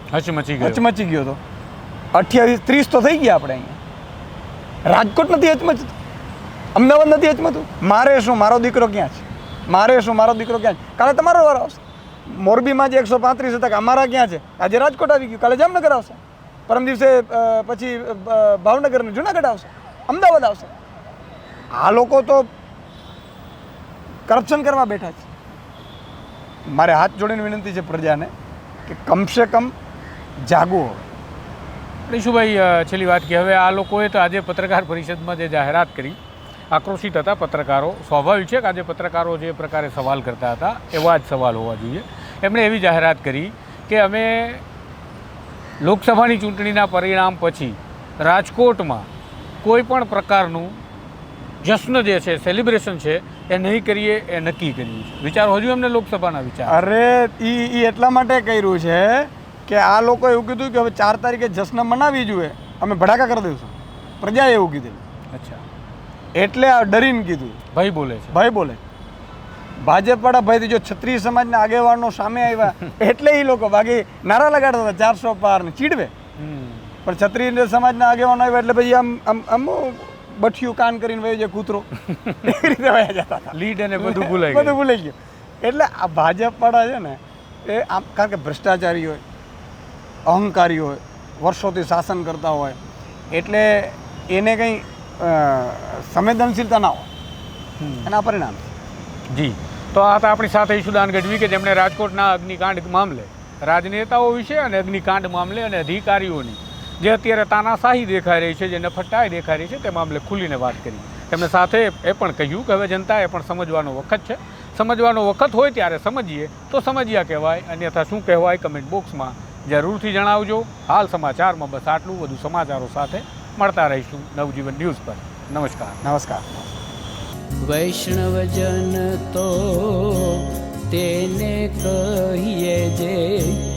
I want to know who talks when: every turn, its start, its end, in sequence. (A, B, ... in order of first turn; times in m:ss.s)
0:00.1-0:00.8 A
0:00.6-0:01.4 B
0:02.1-0:03.8 B
0:04.8-0:05.9 B
0:06.7-0:20.7 B
0:21.8-0:22.5 B
0:24.3-0:25.3 B
0:26.7-0:28.3 B
0:28.9-0:29.7 B
0:30.4-0:31.1 B
0:32.1-0:36.2 A
0:36.7-0:44.6 A
0:45.8-0:49.1 A
0:49.6-0:50.8 A
0:51.6-0:56.8 A
0:56.6-1:05.0 B
1:05.3-1:05.6 A
1:06.3-1:07.6 B
1:07.7-1:08.3 A
1:08.3-1:08.8 B
1:09.8-1:16.1 B
1:16.4-1:16.9 A
1:17.0-1:21.9 B
1:22.4-1:29.2 B
1:23.5-1:24.8 A
1:30.3-1:32.8 B
1:33.3-1:37.1 B
1:37.8-1:38.1 A
1:38.0-1:38.7 B
1:39.3-2:06.0 A
2:06.0-2:06.7 B
2:07.6-2:13.6 C